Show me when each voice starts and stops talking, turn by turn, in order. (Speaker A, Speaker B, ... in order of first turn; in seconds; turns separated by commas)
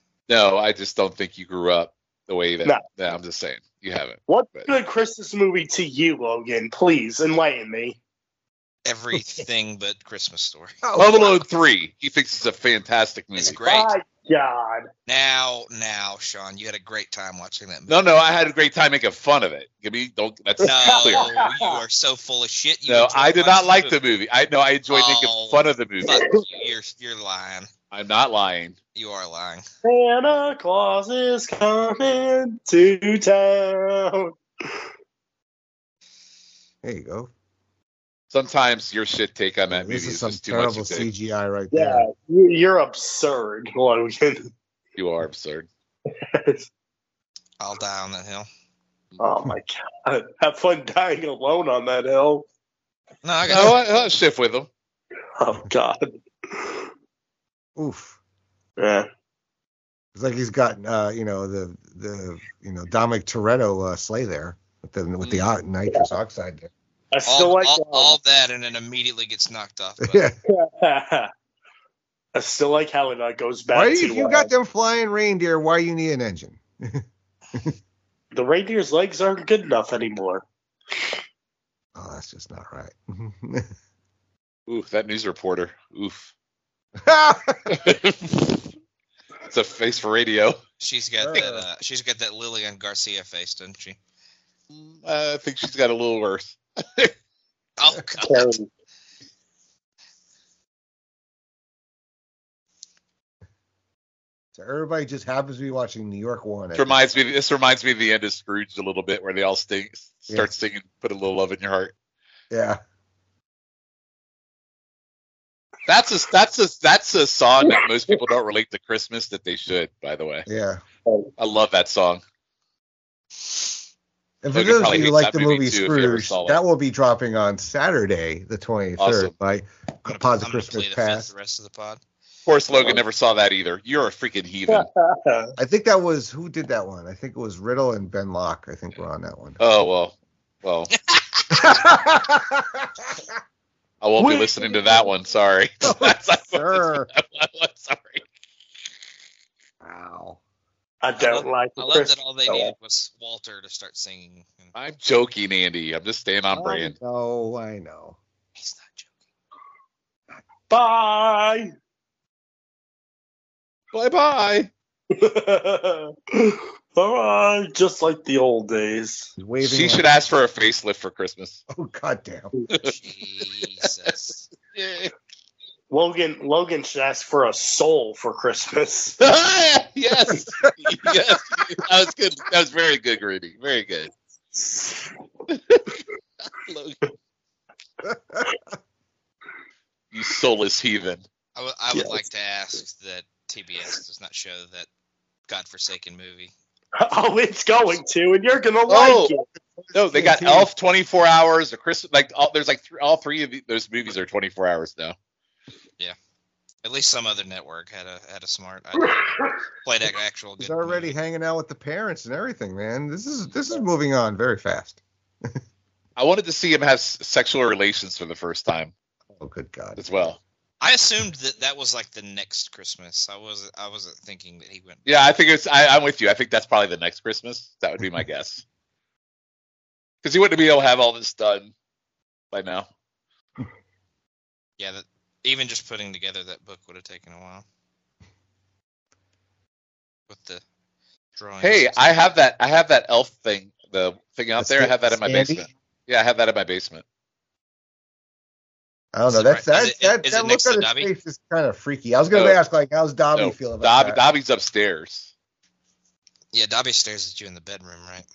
Speaker A: 0.3-4.7, Speaker B: 4.3-8.0, Speaker C: 8.8-10.8, Speaker D: 9.2-9.4, Speaker D: 10.8-11.4, Speaker A: 10.9-13.6, Speaker C: 13.4-13.9, Speaker B: 13.6-14.9, Speaker C: 15.1-18.0, Speaker A: 17.9-21.3, Speaker B: 20.6-21.7, Speaker C: 20.6-23.9, Speaker A: 22.9-26.2, Speaker C: 24.9-27.7, Speaker A: 27.9-28.8, Speaker C: 28.9-29.6, Speaker B: 29.8-34.8, Speaker D: 36.8-37.3, Speaker A: 38.3-41.1, Speaker D: 39.7-42.0, Speaker B: 41.7-44.5, Speaker A: 45.0-45.7, Speaker B: 46.2-46.6, Speaker C: 47.6-48.5, Speaker B: 49.2-52.5, Speaker C: 53.2-53.8, Speaker A: 53.5-54.7, Speaker B: 55.4-56.9, Speaker D: 57.8-58.2, Speaker B: 58.8-59.1, Speaker D: 60.1-66.7, Speaker B: 67.1-68.2, Speaker C: 67.3-70.2, Speaker D: 70.0-70.4, Speaker B: 70.5-71.3, Speaker B: 72.3-74.5, Speaker D: 73.7-77.0, Speaker B: 78.3-80.4, Speaker D: 81.9-83.7, Speaker A: 84.7-86.3, Speaker D: 87.0-87.9, Speaker A: 87.7-88.5, Speaker A: 89.5-90.6, Speaker C: 90.8-94.0, Speaker D: 91.2-91.6, Speaker A: 94.7-97.1, Speaker C: 97.8-98.6, Speaker B: 98.2-98.7, Speaker D: 104.5-107.0, Speaker A: 106.7-111.9, Speaker D: 112.5-112.8, Speaker A: 115.9-120.5, Speaker D: 120.5-120.8, Speaker A: 121.4-122.2, Speaker D: 124.4-131.3, Speaker A: 124.5-126.6, Speaker A: 129.0-129.3, Speaker C: 130.1-132.0, Speaker A: 132.4-134.9, Speaker B: 134.7-135.5, Speaker D: 135.6-139.6, Speaker A: 139.6-140.9, Speaker C: 141.1-141.7, Speaker D: 141.5-143.3, Speaker A: 144.0-148.2, Speaker B: 144.2-145.1, Speaker D: 145.8-147.1, Speaker D: 149.8-150.4, Speaker B: 151.0-152.7, Speaker C: 151.2-154.7, Speaker A: 154.7-156.9, Speaker D: 156.5-158.2, Speaker C: 158.6-159.1, Speaker B: 160.7-161.7, Speaker A: 163.9-164.7, Speaker B: 165.1-169.3, Speaker D: 169.4-170.1, Speaker A: 169.6-171.6, Speaker D: 171.7-172.5, Speaker C: 172.7-174.5, Speaker A: 174.7-175.1, Speaker B: 175.9-179.2, Speaker A: 179.2-184.1, Speaker D: 180.2-181.2, Speaker B: 184.6-185.0, Speaker A: 185.5-186.0, Speaker A: 186.5-187.0, Speaker D: 188.0-188.4, Speaker A: 190.1-191.2, Speaker C: 191.6-194.9, Speaker B: 191.9-192.2, Speaker C: 195.5-196.5, Speaker B: 196.9-199.4, Speaker A: 198.9-199.3, Speaker D: 199.8-200.7, Speaker A: 199.9-205.1, Speaker C: 206.8-211.1, Speaker D: 210.6-215.6, Speaker A: 216.2-218.9, Speaker D: 219.4-220.3, Speaker A: 220.0-220.4, Speaker C: 220.8-225.0, Speaker A: 225.0-228.6, Speaker A: 230.2-231.7, Speaker A: 232.5-232.9, Speaker C: 234.8-237.6, Speaker C: 240.3-240.6, Speaker C: 241.4-242.0, Speaker A: 241.6-247.0, Speaker D: 244.6-245.6, Speaker D: 249.1-254.2, Speaker C: 249.3-251.1, Speaker A: 252.3-252.6, Speaker A: 253.3-255.3, Speaker C: 256.5-258.2